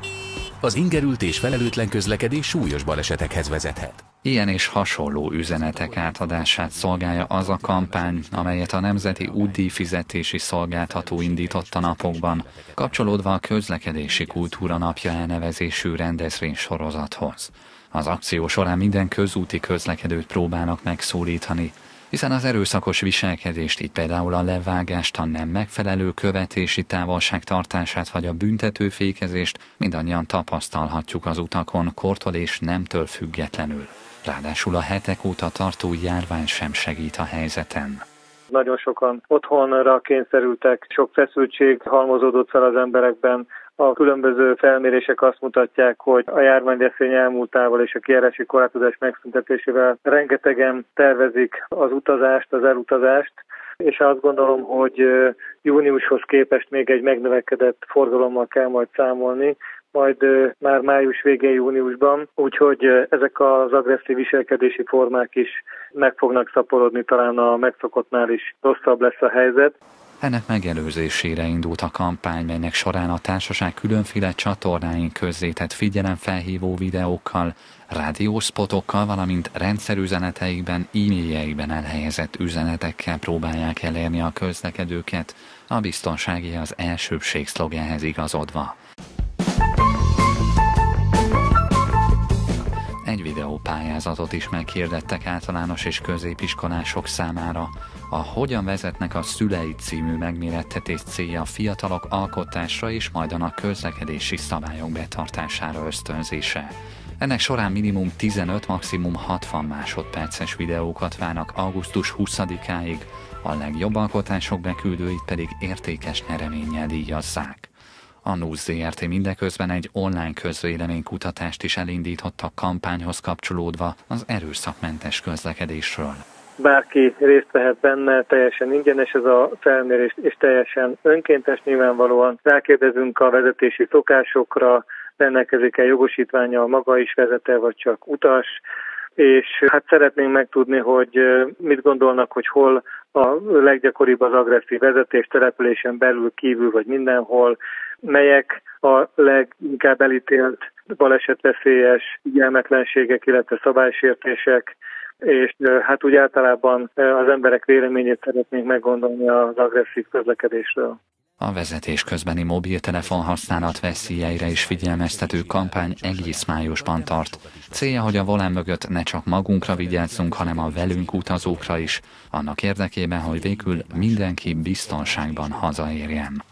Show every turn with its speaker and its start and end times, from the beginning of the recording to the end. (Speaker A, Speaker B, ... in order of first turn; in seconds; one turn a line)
Speaker A: 0.6-4.0
Speaker B: 4.2-38.0
Speaker A: 5.5-9.9
Speaker A: 10.7-13.0
Speaker A: 14.1-15.2
Speaker C: 38.5-69.7
Speaker B: 70.2-88.8
Speaker B: 93.0-117.7
Speaker B: 118.2-126.2
Speaker C: 126.6-138.6
Speaker C: 139.2-161.0
Speaker B: 161.4-176.4
Speaker A: 163.0-168.6
Speaker A: 169.6-171.9
Speaker A: 173.2-175.8